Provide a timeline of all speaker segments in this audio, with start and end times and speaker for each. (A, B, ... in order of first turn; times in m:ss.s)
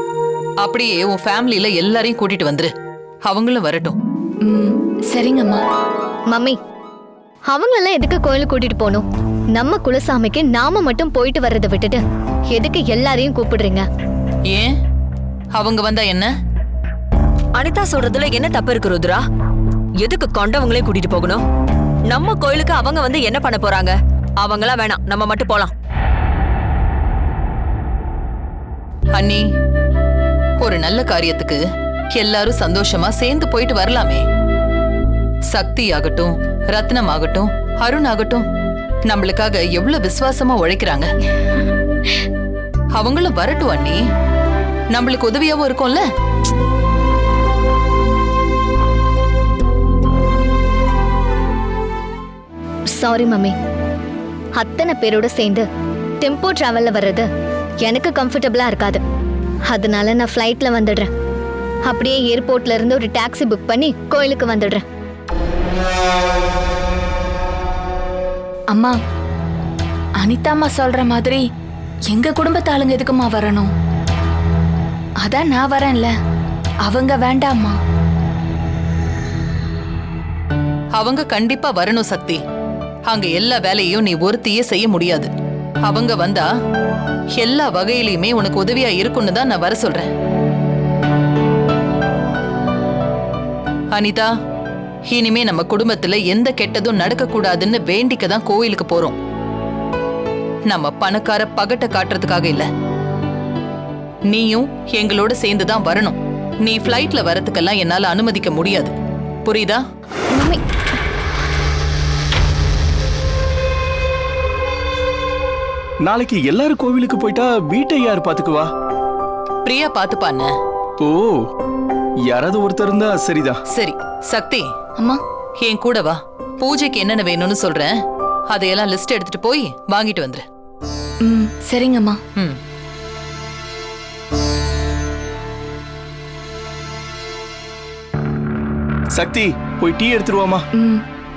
0:00.6-0:02.7 A
0:03.2-0:04.0 A
0:04.4-0:05.6 B
0:06.3-0:06.6 C
0:07.5-0:09.0 C
0:09.5-0:12.0 C
0:12.5-0:13.8 C
0:14.5-0:14.7 A
0:15.5-0:16.3 A
0:17.5-0:19.2 D
0:20.0-0:21.4 D
0:22.1-0:25.7 D
0:29.1-0:29.4 A
0:30.6-0:31.6 A
0:32.1-0:34.2 A
0:35.5-0:38.4 A
0:39.1-0:41.1 A
0:42.9-0:44.0 A
0:44.9-0:46.0 A
0:53.0-0:53.5 C
0:54.6-0:55.6 C
0:56.2-0:57.3 C
0:57.8-0:59.0 C
0:59.7-1:01.1 C
1:01.9-1:04.8 C
1:10.2-1:11.4 B
1:12.1-1:13.7 B
1:15.2-1:16.1 B
1:16.8-1:17.8 B
1:20.9-1:22.4 A
1:23.1-1:25.3 A
1:25.8-1:26.5 A
1:27.4-1:30.1 A
1:33.9-1:34.3 A
1:35.1-1:39.2 A
1:40.7-1:42.7 A
1:44.3-1:48.9 A
1:49.4-1:49.8 A
1:50.3-1:50.6 C
1:56.0-1:58.7 E
1:59.6-2:00.5 A
2:01.0-2:01.4 E
2:02.3-2:03.6 E
2:03.7-2:04.7 A
2:05.6-2:08.0 A
2:08.5-2:10.4 A
2:11.2-2:12.2 B
2:19.1-2:20.6 E